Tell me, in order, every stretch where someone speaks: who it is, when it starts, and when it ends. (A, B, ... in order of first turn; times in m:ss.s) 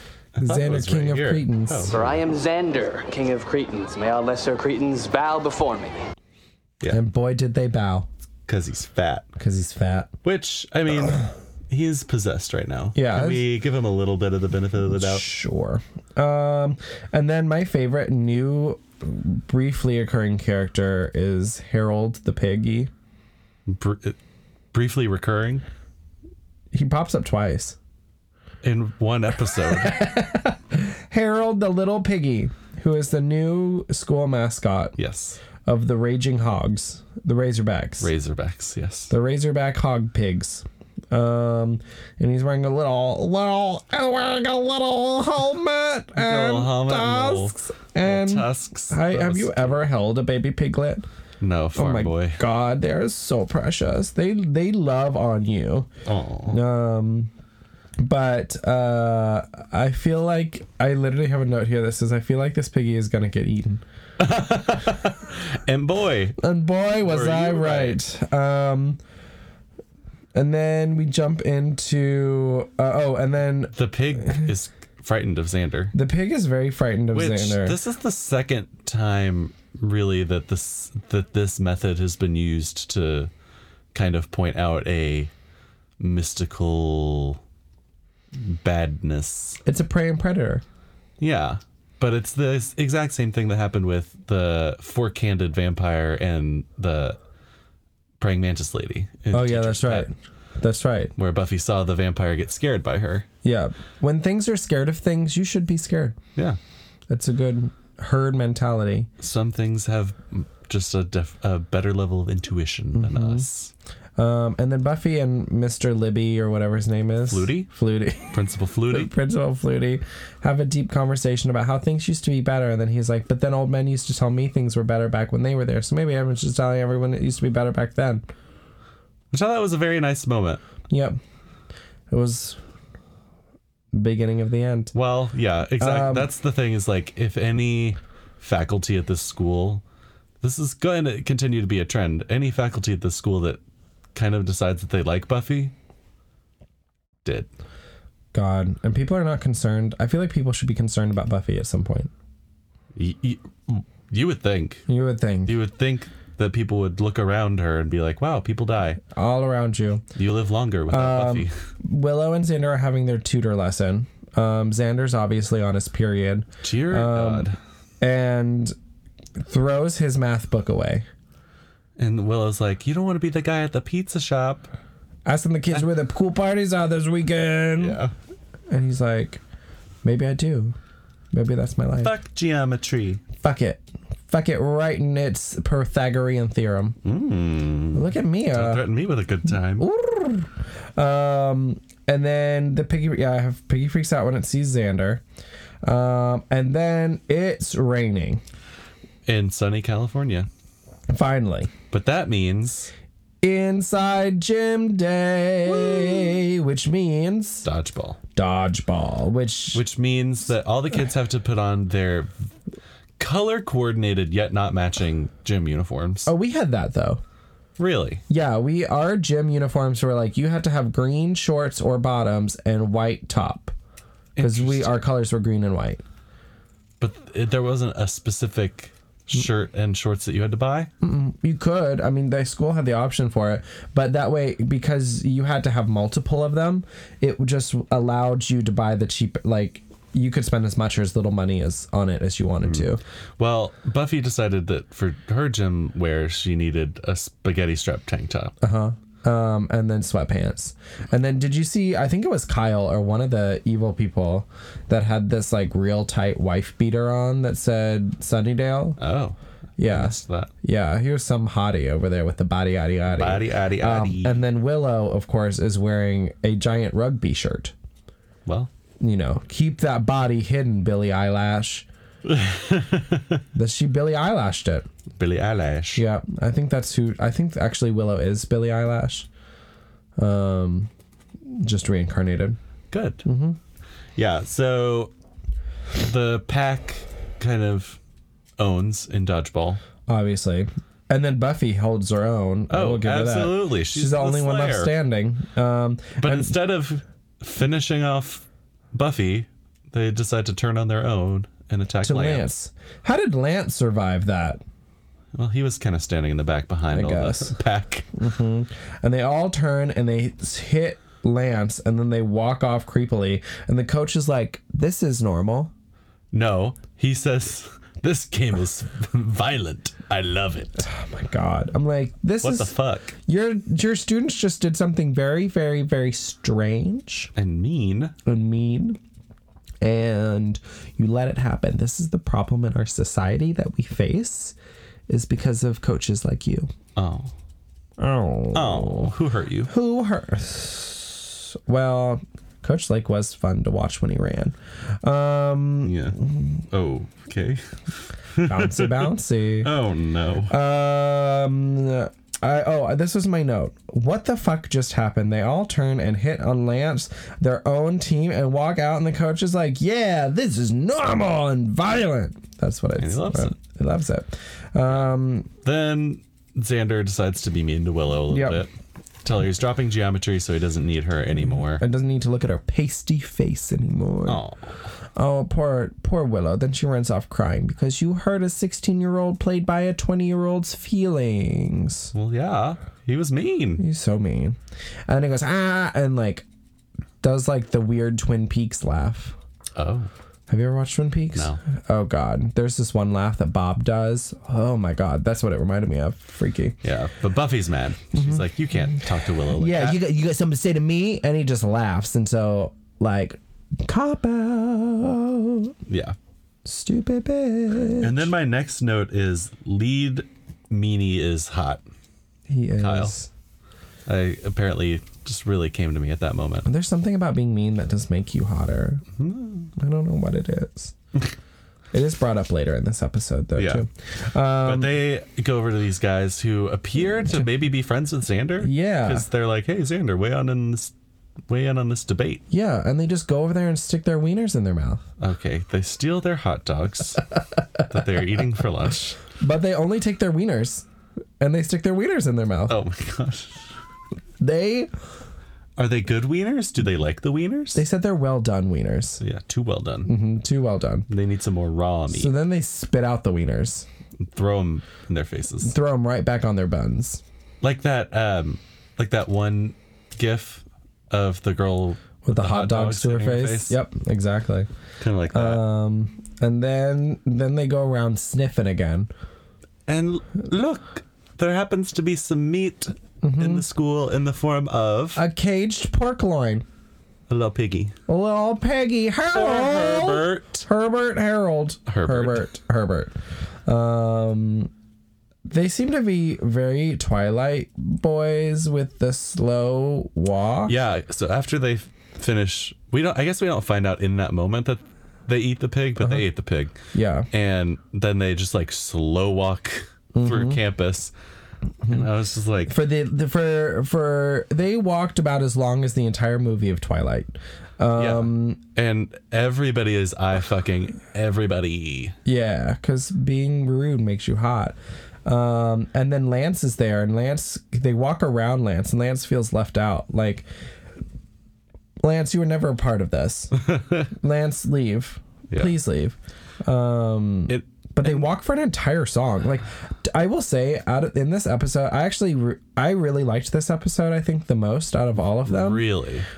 0:00.4-0:02.2 A
0:00.4-0:02.0 B
0:01.9-0:06.1 C
0:06.9-0:08.1 B
0:08.5-0:09.3 A
0:09.4-0:10.1 B
0:10.2-0:15.2 A
0:13.0-0:13.5 B
0:14.8-0:22.9 B
0:23.7-0:24.2 A
0:24.7-0:25.6 A
0:26.7-0:27.8 B
0:28.6-0:30.0 A
0:29.7-0:35.0 B
0:35.0-0:35.4 A
0:35.6-0:38.1 B
0:38.0-0:39.1 A
0:39.1-0:51.1 B
0:46.2-0:49.8 A
0:51.4-0:52.4 A
0:51.8-0:55.9 B
0:56.1-0:56.6 A
0:56.5-0:57.3 B
0:58.0-1:03.8 B
1:04.2-1:06.4 A
1:06.4-1:09.0 B
1:07.0-1:08.0 A
1:10.3-1:14.5 B
1:13.7-1:15.9 A
1:15.9-1:17.8 B
1:17.1-1:23.3 A
1:23.9-1:25.3 A
1:26.0-1:27.4 A
1:28.3-1:29.6 A
1:29.6-1:30.6 B
1:31.2-1:37.2 A
1:38.2-1:40.1 A
1:39.3-1:41.1 B
1:41.2-1:43.3 A
1:43.4-1:46.2 B
1:47.1-1:49.1 B
1:49.2-1:53.7 A
1:52.9-1:53.4 B
1:54.2-1:58.4 B
1:57.2-1:57.7 A
1:58.3-1:59.1 A
1:58.9-2:08.2 B
2:09.3-2:10.6 A
2:10.9-2:11.2 B
2:12.1-2:12.6 B
2:13.9-2:14.9 B
2:14.9-2:19.8 A
2:15.8-2:16.3 B
2:20.4-2:23.6 A
2:24.2-2:25.7 A
2:27.2-2:27.5 A
2:28.3-2:32.1 B
2:33.0-2:34.9 A
2:34.9-2:35.6 B
2:35.5-2:39.0 A
2:39.1-2:40.0 B
2:40.2-2:41.5 A
2:40.9-2:47.5 B
2:46.6-2:47.6 A
2:48.0-2:48.8 B
2:49.4-2:51.1 B
2:52.0-2:54.7 A
2:55.3-2:58.0 B
2:57.8-2:58.1 A
2:58.7-2:59.4 B
3:00.0-3:00.8 B
3:01.3-3:02.2 B
3:02.0-3:03.2 A
3:03.4-3:07.0 B
3:07.0-3:09.9 A
3:07.9-3:08.9 B
3:09.8-3:15.2 B
3:15.8-3:18.4 B
3:19.3-3:20.5 A
3:21.1-3:21.7 B
3:21.9-3:22.9 A
3:23.4-3:27.7 B
3:25.6-3:26.4 A
3:27.6-3:28.2 A
3:28.4-3:29.8 B
3:29.7-3:32.5 A
3:33.2-3:36.3 A
3:36.3-3:37.2 B
3:37.8-3:38.2 A
3:38.3-3:43.7 B
3:44.4-3:45.0 A
3:44.4-3:46.0 B
3:47.0-3:50.9 A
3:51.0-4:03.0 B
4:03.4-4:08.5 A
4:08.6-4:19.0 B
4:19.0-4:20.5 A
4:19.8-4:27.7 B
4:23.1-4:24.4 A
4:29.0-4:31.9 B
4:32.2-4:33.4 A
4:33.5-4:34.9 B
4:35.2-4:36.0 A
4:36.0-4:39.3 B
4:40.2-4:40.9 B
4:41.5-4:42.6 B
4:42.9-4:43.2 A
4:43.2-4:43.6 B
4:44.2-4:45.1 A
4:46.0-4:48.0 A
4:48.6-4:49.8 A
4:50.1-4:56.5 B
4:52.7-4:54.9 A
4:56.2-5:02.5 A
5:02.0-5:04.6 B
5:05.4-5:08.1 A
5:06.9-5:07.5 B
5:08.2-5:15.7 B
5:16.3-5:20.8 A
5:20.8-5:27.3 B
5:22.4-5:23.2 A
5:27.4-5:28.2 A
5:28.3-5:29.0 B
5:29.8-5:34.6 B
5:35.1-5:36.7 B
5:37.0-5:37.3 A
5:38.0-5:39.1 B
5:38.5-5:39.7 A
5:39.7-5:46.6 B
5:45.8-5:47.8 A
5:48.3-5:49.0 A
5:48.4-5:49.7 B
5:49.6-5:50.5 A
5:50.5-6:05.5 B
6:03.0-6:03.6 A
6:05.6-6:08.7 A
6:08.3-6:08.6 B
6:09.2-6:11.8 A
6:11.8-6:14.4 B
6:14.3-6:14.8 A
6:15.2-6:22.1 B
6:22.1-6:23.8 A
6:23.8-6:24.6 B
6:25.1-6:26.5 B
6:27.2-6:29.4 B
6:29.8-6:30.1 A
6:30.5-6:36.8 B
6:31.4-6:31.6 A
6:36.8-6:40.0 A
6:38.1-6:45.7 B
6:45.9-6:46.2 A
6:46.6-6:48.3 B
6:48.0-6:51.8 A
6:52.5-6:53.3 B
6:52.8-6:53.2 A
6:54.1-6:56.7 A
6:56.7-6:59.0 B
6:59.2-6:59.7 A
6:59.8-7:00.9 B
7:01.9-7:04.9 B
7:03.6-7:03.8 A
7:04.6-7:10.9 A
7:08.6-7:09.3 B
7:11.5-7:12.4 A
7:12.5-7:15.0 B
7:15.2-7:17.2 A
7:17.9-7:19.2 A
7:19.4-7:20.9 B
7:21.4-7:22.8 B
7:22.7-7:23.6 A
7:24.4-7:24.9 B
7:25.8-7:27.8 A
7:27.8-7:29.2 B
7:29.2-7:30.1 A
7:30.0-7:31.1 B
7:31.1-7:32.3 A
7:32.1-7:33.9 B
7:34.3-7:35.8 A
7:35.6-7:37.2 B
7:37.6-7:43.8 A
7:42.2-7:44.7 B
7:45.0-7:45.6 A
7:45.3-7:49.1 B
7:49.9-7:55.2 A
7:53.2-7:53.6 B
7:55.2-7:56.6 B
7:57.3-7:58.0 A
7:58.1-8:03.2 B
7:59.3-8:00.6 A
8:01.9-8:02.5 A
8:03.7-8:04.7 B
8:05.5-8:10.7 B
8:10.7-8:16.8 A
8:16.9-8:17.3 B
8:17.3-8:21.1 A
8:20.1-8:20.6 B
8:21.9-8:22.8 A
8:22.7-8:28.6 B
8:28.0-8:32.2 A
8:32.2-8:40.5 B
8:42.0-8:55.9 B
8:43.6-8:44.1 A
8:47.5-8:48.3 A
8:55.4-8:56.3 A